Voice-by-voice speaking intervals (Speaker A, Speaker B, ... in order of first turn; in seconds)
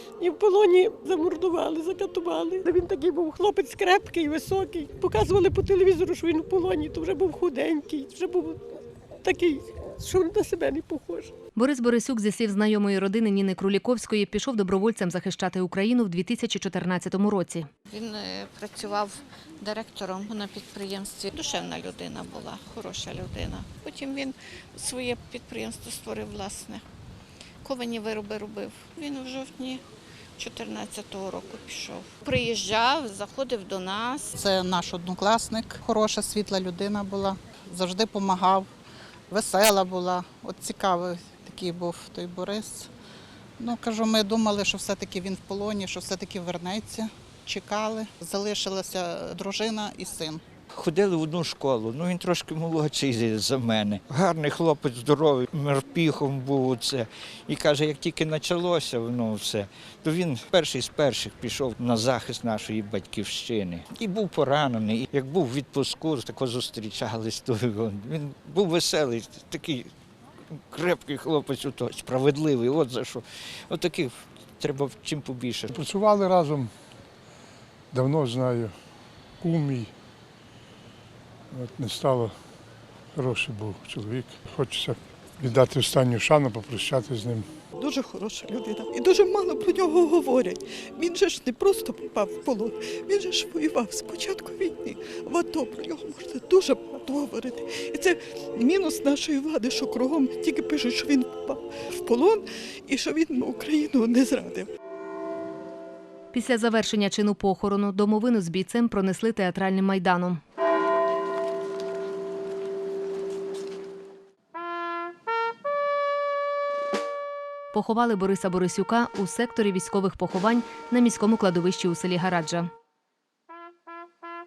Speaker A: 0.2-11.3
Speaker B: 11.6-17.7, 106.3-110.4, 117.7-122.7
Speaker C: 17.9-26.8, 27.6-29.8, 30.4-34.3
Speaker D: 34.3-38.7, 39.3-42.9, 43.6-50.4
Speaker E: 50.7-69.9, 70.5-75.8
Speaker F: 75.7-76.7, 77.9-78.7, 79.4-79.9, 81.5-82.3, 83.1-87.5
Speaker G: 87.8-104.7